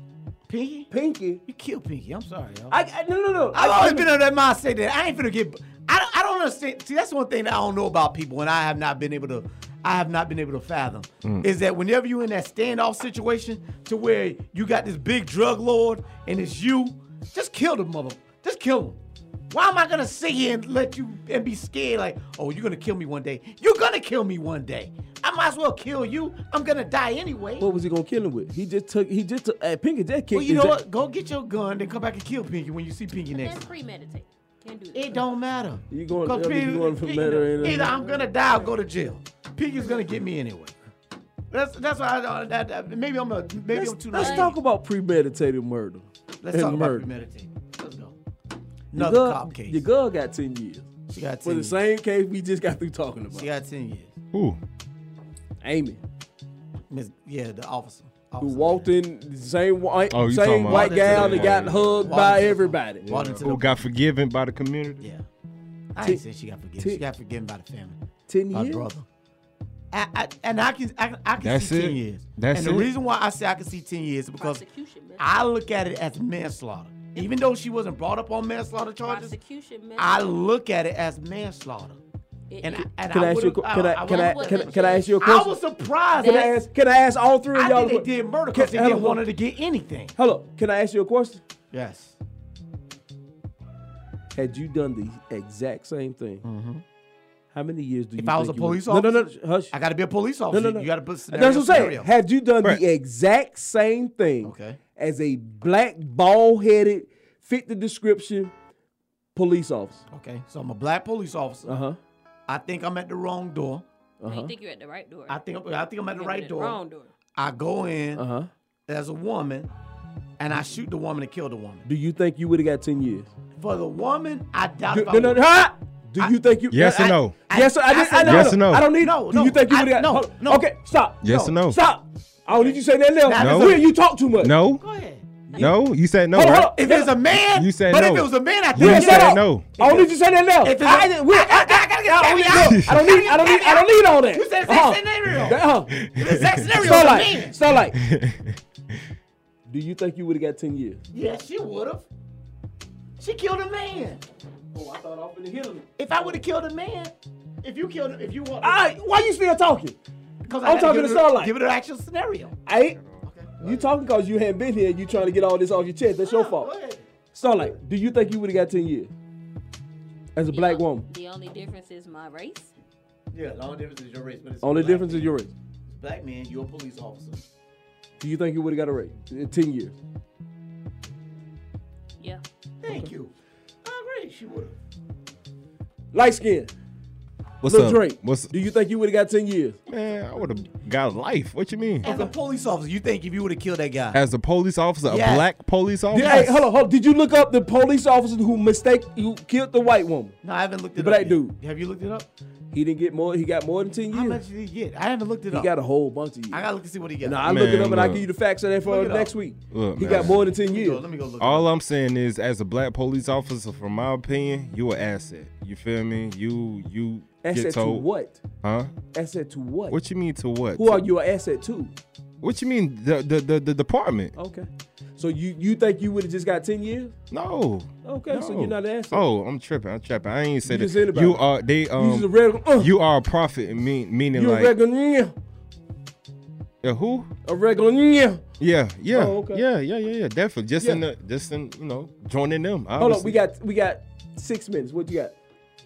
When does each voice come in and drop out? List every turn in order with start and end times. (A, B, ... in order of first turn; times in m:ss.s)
0:00.5-0:00.9 A
0:00.9-0:01.4 B
0:01.4-0:02.8 A
0:02.7-0:04.1 B
0:03.5-0:19.0 A
0:19.5-0:27.7 A
0:27.6-0:30.8 B
0:30.3-0:33.7 A
0:33.3-0:35.2 C
0:34.9-0:40.7 A
0:35.9-0:38.2 B
0:41.5-0:44.6 A
0:43.7-0:47.1 B
0:44.1-0:44.5 C
0:46.4-0:48.2 A
0:48.9-0:49.9 A
0:49.0-0:50.9 B
0:51.1-0:51.8 A
0:51.4-0:53.5 B
0:53.3-0:54.1 A
0:54.3-0:54.6 D
0:55.6-0:56.0 B
0:56.9-0:58.9 A
0:58.4-1:03.0 B
1:00.1-1:02.2 D
1:00.6-1:03.9 A
1:03.0-1:05.0 D
1:05.0-1:05.3 A
1:05.9-1:08.0 A
1:08.3-1:08.9 B
1:08.5-1:09.0 A
1:09.9-1:14.6 A
1:11.4-1:12.9 D
1:14.4-1:15.3 C
1:15.2-1:19.4 A
1:19.0-1:20.4 C
1:20.0-1:22.0 A
1:22.5-1:22.9 C
1:22.6-1:26.6 A
1:23.1-1:25.6 B
1:24.0-1:25.2 C
1:26.2-1:29.2 B
1:26.2-1:26.6 C
1:27.5-1:30.2 A
1:30.2-1:31.4 B
1:31.7-1:32.2 A
1:34.3-1:36.4 B
1:36.4-1:36.8 A
1:37.5-1:39.7 B
1:38.2-1:42.1 A
1:40.5-1:48.5 B
1:44.4-1:44.8 A
1:49.4-1:50.0 B
1:50.1-1:51.8 A
1:51.7-1:52.0 B
1:52.5-1:53.8 A
1:54.2-1:54.5 B
1:54.3-1:55.4 C
1:55.3-1:56.8 A
1:56.1-1:57.1 C
1:57.4-1:58.2 A
1:58.2-1:58.5 B
1:58.9-1:59.7 A
2:00.4-2:01.9 A
2:01.9-2:03.3 B
2:03.6-2:05.4 A
2:04.9-2:14.6 B
2:06.2-2:10.7 A
2:06.7-2:07.4 D
2:08.2-2:08.9 D
2:11.2-2:11.6 A
2:11.2-2:11.8 D
2:12.5-2:13.8 A
2:13.4-2:13.8 D
2:14.4-2:14.8 D
2:14.8-2:15.7 A
2:15.6-2:16.7 D
2:16.3-2:17.1 B
2:16.6-2:25.6 A
2:17.5-2:19.7 D
2:18.8-2:26.0 B
2:22.6-2:23.0 D
2:26.0-2:27.1 D
2:26.2-2:27.6 A
2:26.8-2:28.0 B
2:27.9-2:28.6 D
2:29.7-2:31.0 B
2:31.1-2:32.1 A
2:33.2-2:34.2 A
2:34.7-2:35.9 B
2:36.0-2:38.9 A
2:38.6-2:40.0 B
2:40.4-2:42.6 A
2:40.6-2:41.5 B
2:42.7-2:43.0 B
2:43.2-2:44.0 A
2:43.6-2:46.7 B
2:46.2-2:47.7 A
2:47.3-2:49.1 B
2:50.4-2:51.1 B
2:50.5-2:52.7 C
2:53.3-2:55.3 A
2:54.6-2:55.5 B
2:55.9-2:57.5 A
2:58.2-3:00.0 B
3:02.8-3:03.3 A
3:03.8-3:04.8 A
3:06.1-3:06.7 B
3:07.6-3:08.5 D
3:07.6-3:09.8 B
3:09.9-3:12.1 D
3:12.0-3:14.2 A
3:14.1-3:16.6 D
3:15.1-3:15.5 A
3:16.1-3:16.7 A
3:16.2-3:20.4 B
3:20.4-3:22.3 A
3:21.0-3:21.6 B
3:22.7-3:24.4 B
3:24.1-3:25.7 A
3:25.5-3:26.6 B
3:26.5-3:27.5 A
3:27.2-3:31.0 B
3:27.4-3:28.3 D
3:28.8-3:29.4 A
3:29.7-3:30.4 D
3:30.0-3:31.7 A
3:31.4-3:38.1 D
3:37.4-3:38.4 B
3:38.6-3:39.0 D
3:39.1-3:40.0 B
3:39.9-3:41.0 D
3:40.8-3:41.9 B
3:42.4-3:44.3 D
3:44.4-3:47.1 B
3:47.3-3:54.7 D
3:48.0-3:49.2 B
3:50.6-3:51.4 B
3:52.0-3:52.9 B
3:54.4-3:55.3 B
3:56.8-3:57.3 D
3:57.4-3:58.4 B
3:58.6-4:03.4 D
3:59.1-3:59.6 B
4:00.8-4:01.0 B
4:03.0-4:05.4 B